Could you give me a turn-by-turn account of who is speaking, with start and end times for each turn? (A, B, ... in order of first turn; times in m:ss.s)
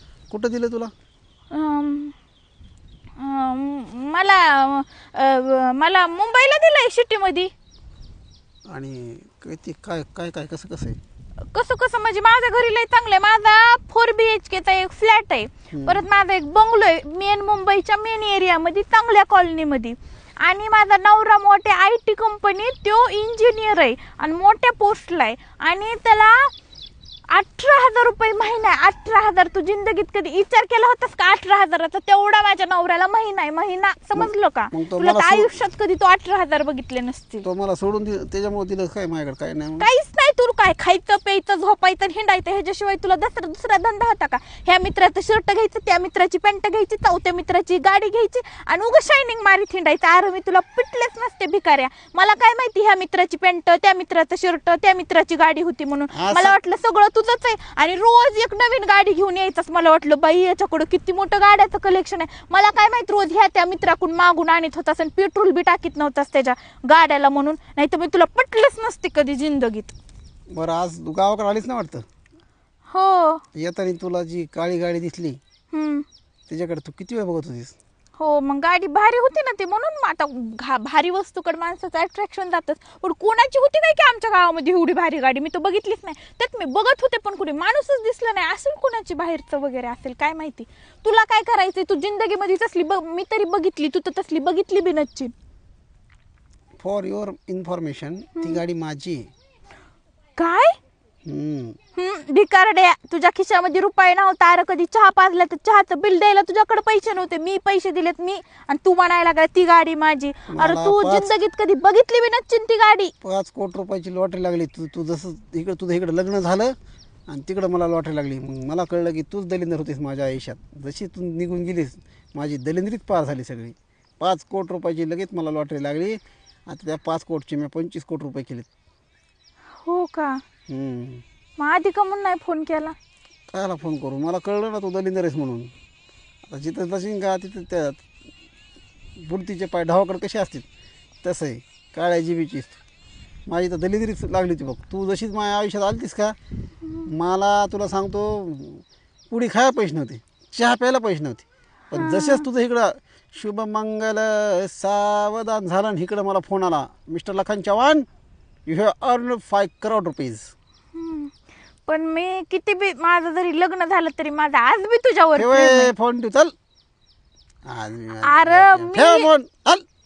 0:00.3-0:00.9 A
0:01.5-0:02.2 B
0:03.2-0:07.5 B
0:08.7-0:11.0 A
0:11.5-0:26.5 B
0:15.7-0:16.0 A
0:27.3-0:37.4 B
0:34.2-0:35.5 A
0:37.4-0:39.9 A
0:39.8-1:09.9 B
0:56.1-0:56.6 A
1:10.5-1:12.0 A
1:12.9-1:13.4 B
1:13.6-1:15.4 A
1:15.7-1:16.1 B
1:16.5-1:17.8 A
1:18.2-1:35.3 B
1:36.8-1:39.3 A
1:40.4-1:40.8 B
1:41.2-1:41.8 A
1:42.0-1:53.1 B
1:50.5-1:51.3 A
1:53.2-1:56.7 A
1:57.3-2:08.7 A
2:09.8-2:10.4 B
2:10.7-2:11.2 A
2:11.6-2:13.0 B
2:13.5-2:15.7 A
2:16.5-2:18.1 A
2:19.2-2:20.7 A
2:21.2-2:22.8 A
2:23.5-2:26.4 A
2:27.1-2:38.1 A
2:31.9-2:32.5 B
2:38.7-2:40.5 A
2:41.0-2:41.3 B
2:41.9-2:45.9 B
2:45.4-2:46.5 A
2:47.7-2:49.8 A
2:48.2-2:49.3 B